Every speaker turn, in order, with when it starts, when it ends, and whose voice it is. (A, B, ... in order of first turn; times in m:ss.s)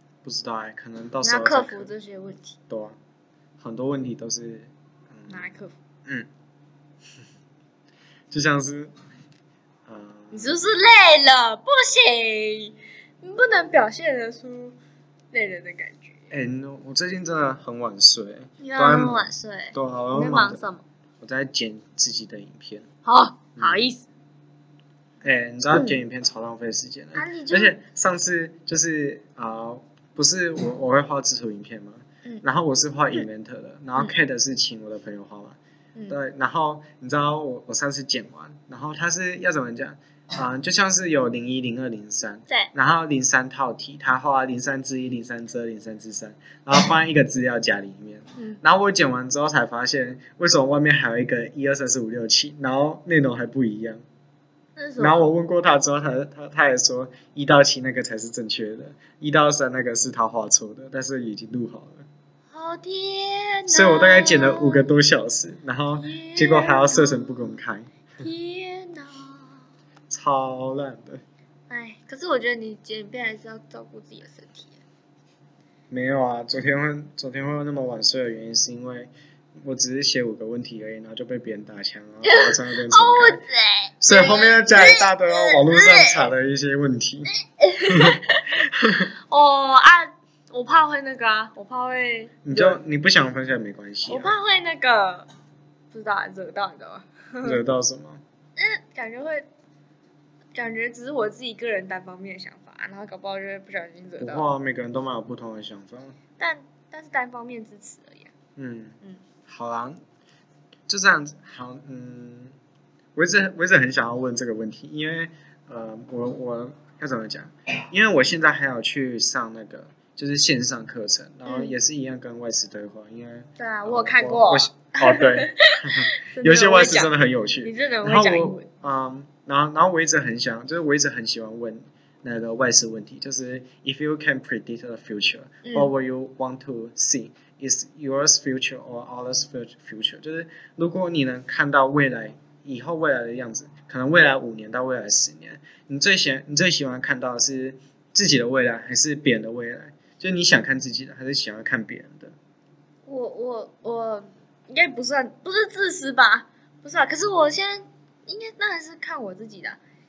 0:00.2-0:01.9 A
0:01.2-0:02.6 B
0:02.7-0:03.0 A
0:03.6-0:05.4 A
0:05.3-0:05.8 B
0:08.3-0:08.9 A
0:09.9-0:10.6 A
0:10.3-0:14.8 B
0:15.3-0:16.3 B
0:16.3-0:20.6 A
0:18.6-0:20.8 B
0:21.2-0:22.9 A
0:23.0-0:24.1 B
0:23.6-0:23.8 A
0:25.2-0:35.6 A
0:25.7-0:26.0 B
0:27.2-0:27.8 B
0:36.1-0:54.0 A
0:54.8-0:55.2 B
0:55.0-1:02.0 A
1:02.5-1:04.9 B
1:03.7-1:07.9 A
1:06.0-1:07.6 B
1:08.2-1:09.6 B
1:10.1-1:11.2 A
1:11.7-1:14.8 B
1:15.9-1:23.4 A
1:22.2-1:26.3 B
1:24.0-1:29.1 A
1:27.3-1:32.8 B
1:32.4-1:34.3 A
1:34.1-1:35.3 B
1:35.9-1:37.6 B
1:37.4-1:38.2 A
1:38.6-1:39.5 B
1:40.5-1:44.5 B
1:44.2-1:46.2 A
1:46.4-1:48.3 B
1:48.6-1:50.0 A
1:50.9-1:52.6 A
1:53.2-2:32.4 A
2:01.5-2:01.8 B
2:03.6-2:08.7 B
2:15.6-2:15.9 B
2:33.1-2:39.8 B